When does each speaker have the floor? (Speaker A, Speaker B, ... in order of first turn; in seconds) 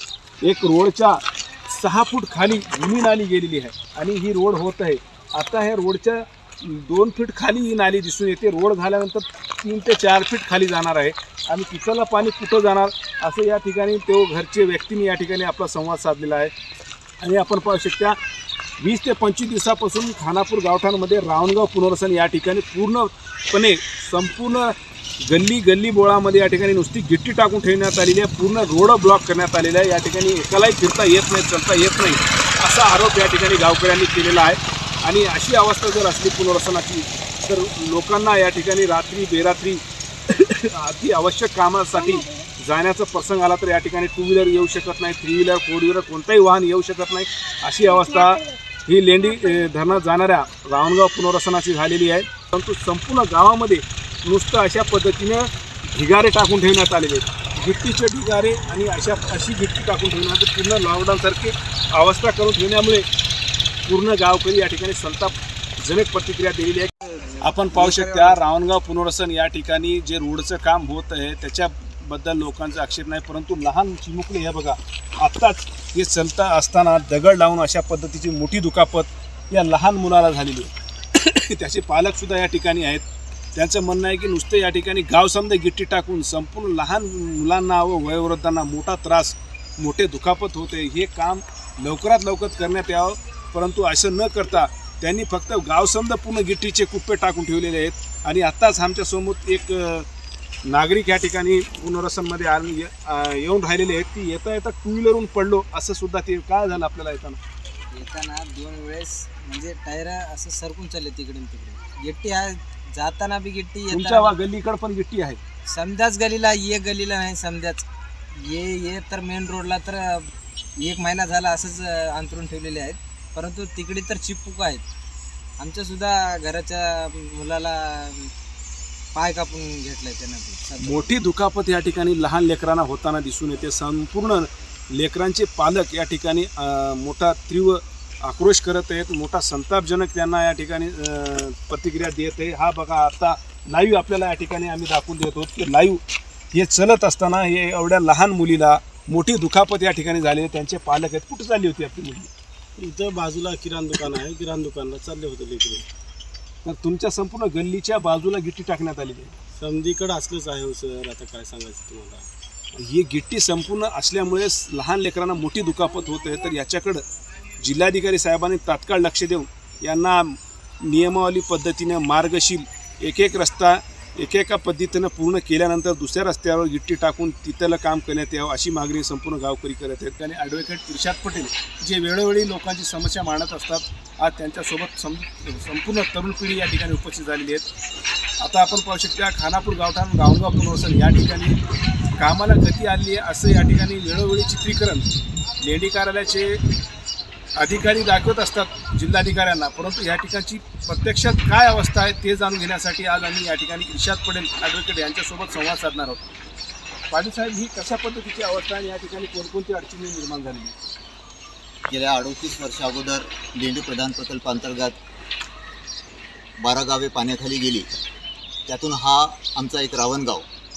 Speaker A: 0.4-16.5, 17.2-18.1, 18.8-24.7, 25.2-63.1, 63.9-100.1, 100.7-107.4, 113.9-115.4, 130.8-152.3, 156.6-159.3, 162.7-167.0, 167.6-187.7, 188.4-191.6, 192.2-196.6, 197.6-206.2, 207.1-210.7
Speaker B: 108.0-114.0, 115.8-117.8, 118.5-120.2, 120.9-124.8, 125.6-128.3, 129.2-130.7
Speaker C: 152.8-155.8, 159.6-162.3
Speaker D: 211.9-215.0, 216.6-217.9, 218.7-220.4